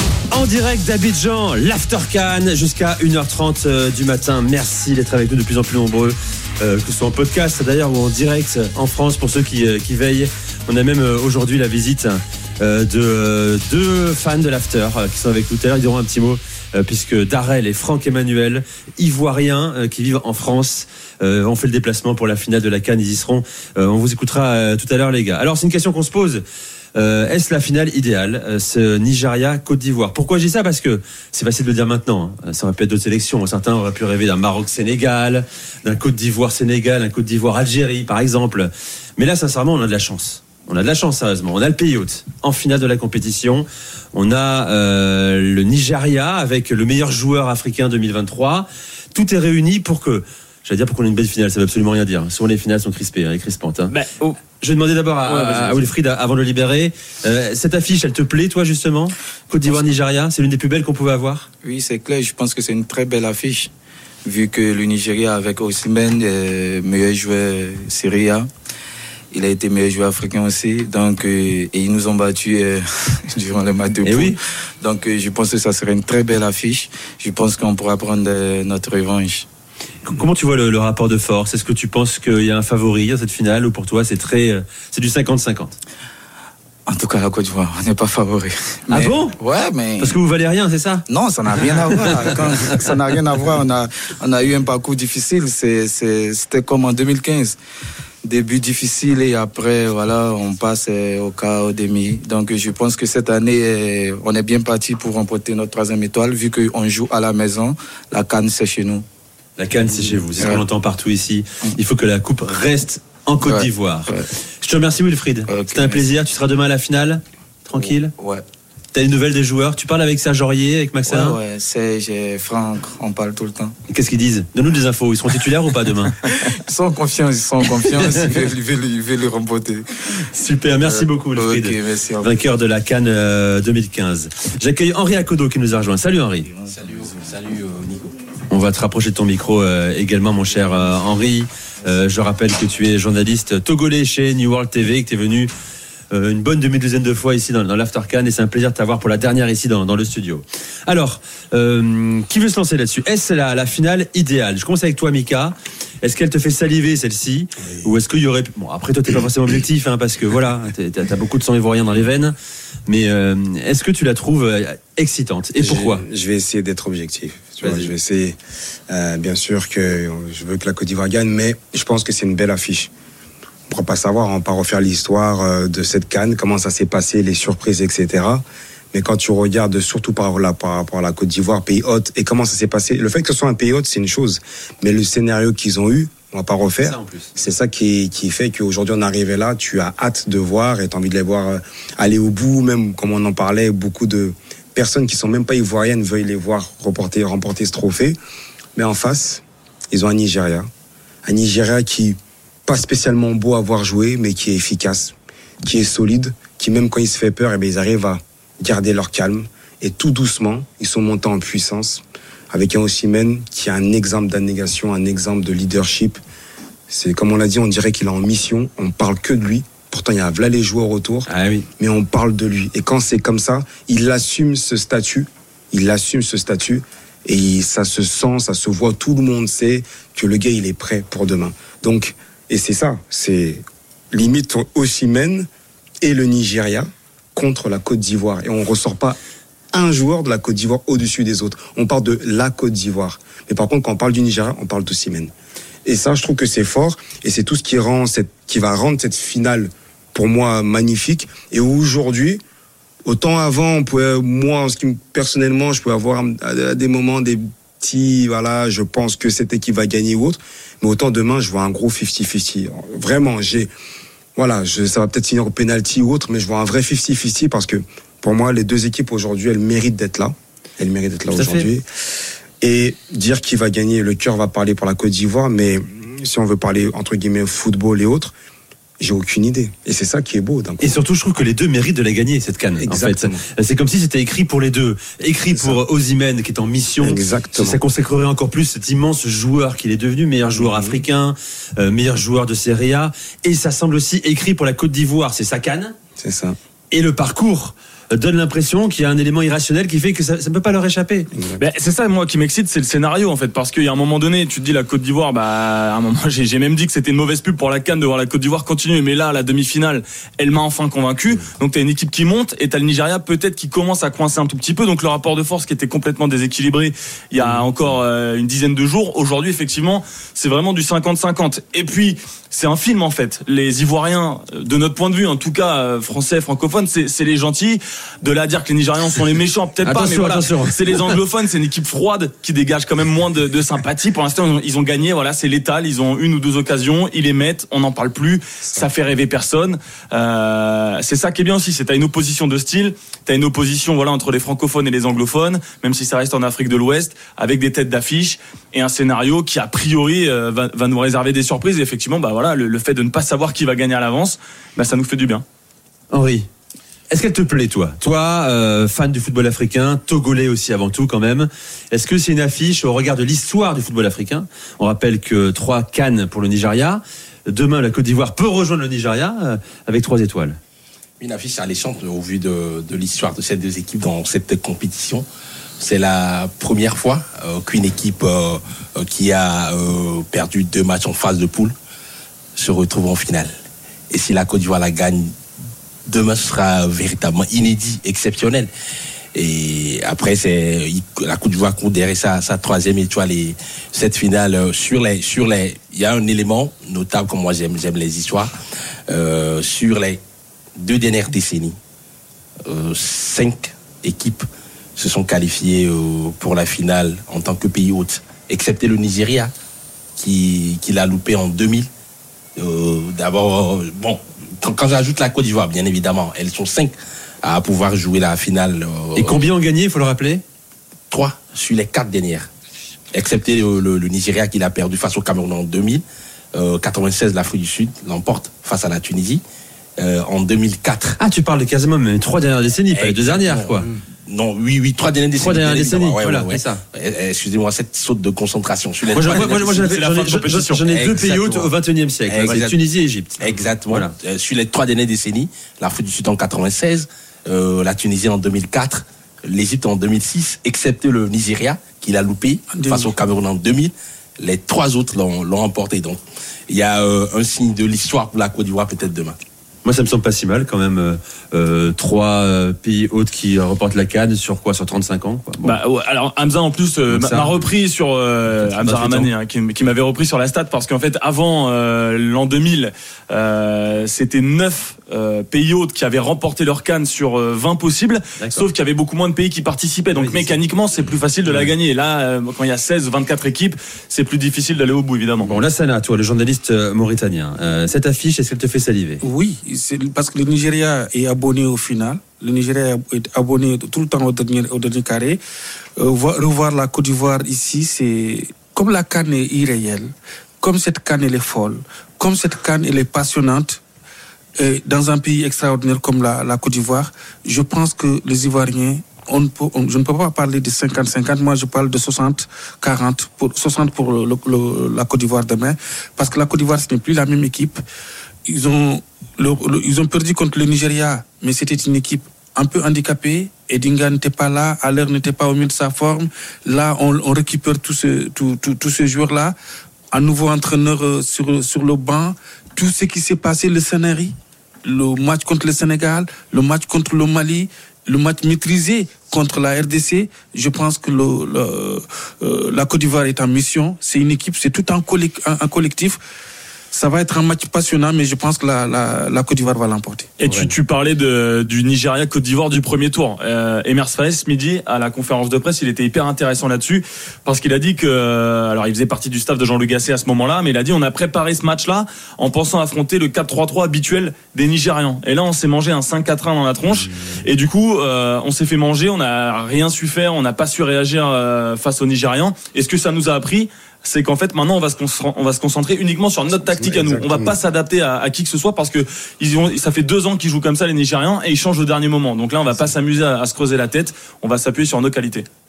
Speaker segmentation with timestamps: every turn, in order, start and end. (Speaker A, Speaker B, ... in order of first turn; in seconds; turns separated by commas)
Speaker A: 0.3-26.4, Speaker A: 26.9-61.5, Speaker B: 53.9-54.3, Speaker B: 55.3-55.6, Speaker C: 61.6-63.7, Speaker C: 64.2-68.5, Speaker C: 69.3-79.5, Speaker A: 74.0-74.4, Speaker A: 80.0-85.8, Speaker C: 86.9-90.2, Speaker A: 88.9-89.4, Speaker A: 90.0-91.0, Speaker C: 91.1-97.6, Speaker A: 92.0-92.8, Speaker C: 98.2-109.0, Speaker A: 109.6-118.1, Speaker C: 110.4-110.6, Speaker C: 113.4-114.2, Speaker C: 115.5-116.1, Speaker C: 118.2-118.4, Speaker A: 118.9-121.4, Speaker C: 121.1-123.7, Speaker A: 123.9-126.2, Speaker C: 126.4-129.8, Speaker A: 130.3-136.5, Speaker C: 130.8-132.3, Speaker C: 136.5-137.2, Speaker D: 136.7-138.2, Speaker A: 138.5-145.5, Speaker A: 146.1-162.3, Speaker A: 162.9-166.0, Speaker E: 165.6-168.4, Speaker A: 167.6-167.9, Speaker E: 168.9-172.9, Speaker E: 173.7-198.2, Speaker A: 186.8-187.3, Speaker E: 198.8-200.7, Speaker E: 201.2-216.2, Speaker E: 216.9-235.5, Speaker A: 221.3-221.7, Speaker E: 236.0-239.2, Speaker E: 239.7-245.3, Speaker E: 245.8-252.4, Speaker E: 253.0-263.7, Speaker E: 264.4-271.9, Speaker A: 271.3-271.7, Speaker E: 272.6-278.3, Speaker E: 279.0-281.0, Speaker A: 280.8-295.9, Speaker E: 282.8-283.4, Speaker E: 285.5-285.8, Speaker E: 287.0-287.8, Speaker E: 290.5-291.0, Speaker E: 296.2-296.6, Speaker A: 296.9-301.3, Speaker E: 301.3-301.6, Speaker B: 301.6-355.4, Speaker A: 329.8-331.0, Speaker A: 356.1-356.5, Speaker A: 357.1-370.6, Speaker D: 371.2-375.2, Speaker D: 375.8-381.7, Speaker D: 382.5-383.5, Speaker D: 384.1-385.3, Speaker D: 386.1-388.7, Speaker D: 389.3-398.5, Speaker D: 399.1-400.2, Speaker D: 400.8-401.8, Speaker D: 402.6-409.5, Speaker D: 410.1-411.9, Speaker D: 412.6-419.4, Speaker A: 419.1-420.4, Speaker D: 421.1-422.5, Speaker D: 423.1-426.0, Speaker D: 426.5-429.4, Speaker D: 430.0-431.2, Speaker A: 431.2-433.9, Speaker D: 432.9-439.9, Speaker A: 435.4-436.8, Speaker A: 439.1-444.1, Speaker B: 439.8-440.8, Speaker D: 440.9-441.7, Speaker D: 442.2-442.8, Speaker D: 443.4-459.4, Speaker F: 452.7-453.1, Speaker A: 459.8-465.8, Speaker B: 465.6-485.6, Speaker A: 467.1-467.5, Speaker A: 468.6-469.3, Speaker A: 478.4-478.7, Speaker A: 480.1-480.5, Speaker A: 485.4-489.2, Speaker F: 489.2-495.4, Speaker F: 496.0-503.8, Speaker F: 504.6-517.8, Speaker F: 518.5-529.5, Speaker F: 530.1-546.2, Speaker F: 546.9-550.3, Speaker B: 550.4-585.5, Speaker A: 550.4-550.7, Speaker E: 576.5-577.6